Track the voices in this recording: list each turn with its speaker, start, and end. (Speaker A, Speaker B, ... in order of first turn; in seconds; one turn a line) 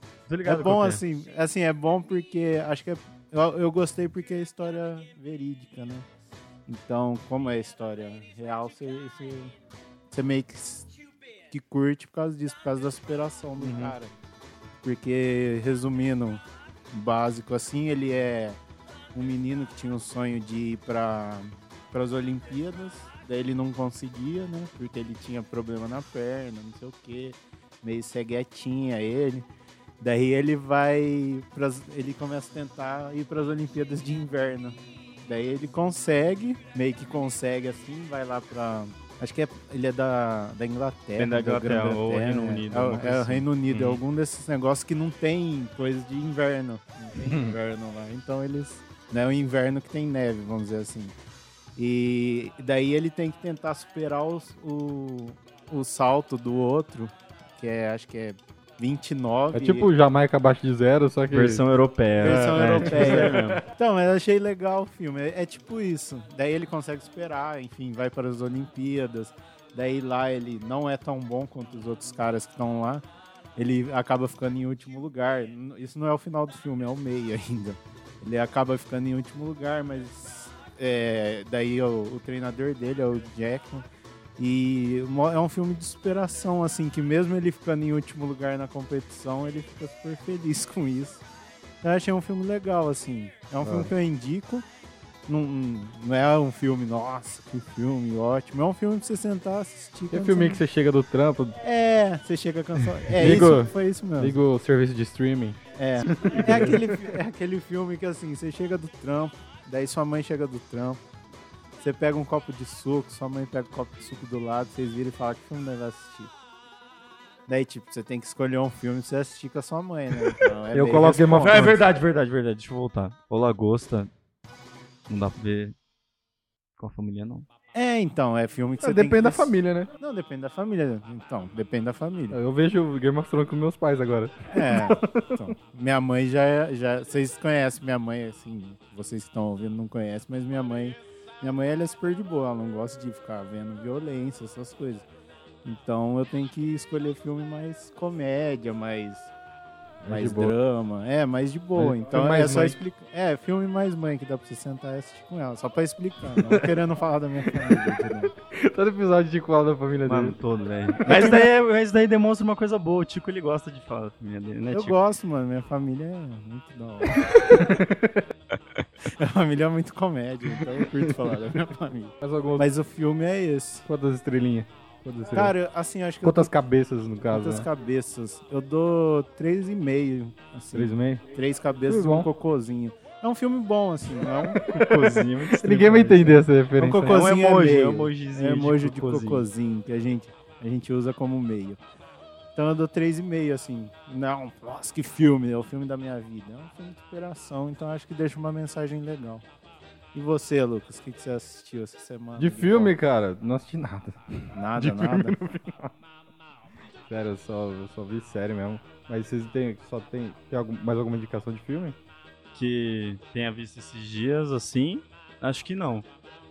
Speaker A: 0.3-1.0
Speaker B: 0.4-6.1
Speaker B: 6.7-9.5
Speaker B: 10.1-10.9
Speaker B: 11.5-14.1
Speaker A: 13.6-13.9
Speaker B: 14.8-18.6
Speaker B: 19.1-29.5
Speaker B: 30.0-51.1
Speaker A: 41.2-44.0
Speaker C: 47.2-47.5
Speaker B: 51.8-59.9
Speaker C: 59.5-61.6
Speaker A: 61.3-63.6
Speaker C: 62.2-63.6
Speaker B: 62.2-73.0
Speaker B: 73.5-83.8
Speaker B: 84.4-91.2
Speaker B: 91.8-94.6
Speaker C: 93.6-93.9
Speaker B: 95.3-100.6
Speaker C: 100.1-101.6
Speaker B: 101.6-104.4
Speaker C: 103.1-107.1
Speaker B: 105.7-111.0
Speaker B: 111.8-116.3
Speaker B: 117.5-121.7
Speaker C: 120.7-121.8
Speaker A: 121.4-124.1
Speaker A: 125.1-125.7
Speaker A: 126.8-127.5
Speaker B: 127.7-132.4
Speaker C: 128.8-129.9
Speaker C: 132.3-135.4
Speaker B: 134.5-145.1
Speaker B: 145.6-149.3
Speaker C: 150.0-150.5
Speaker B: 150.1-158.3
Speaker C: 151.7-152.8
Speaker C: 157.6-160.4
Speaker A: 160.1-165.0
Speaker C: 161.0-161.5
Speaker B: 164.7-167.7
Speaker C: 167.5-168.3
Speaker B: 169.1-173.8
Speaker C: 172.2-172.7
Speaker C: 173.8-175.5
Speaker B: 175.3-176.5
Speaker C: 176.2-177.7
Speaker B: 177.3-184.6
Speaker C: 180.7-181.2
Speaker C: 181.9-182.3
Speaker C: 184.5-187.2
Speaker A: 184.6-186.4
Speaker B: 186.8-191.8
Speaker A: 187.0-189.4
Speaker B: 192.5-199.4
Speaker B: 200.1-202.9
Speaker C: 202.4-205.9
Speaker B: 204.5-205.4
Speaker C: 207.1-211.9
Speaker A: 212.5-216.1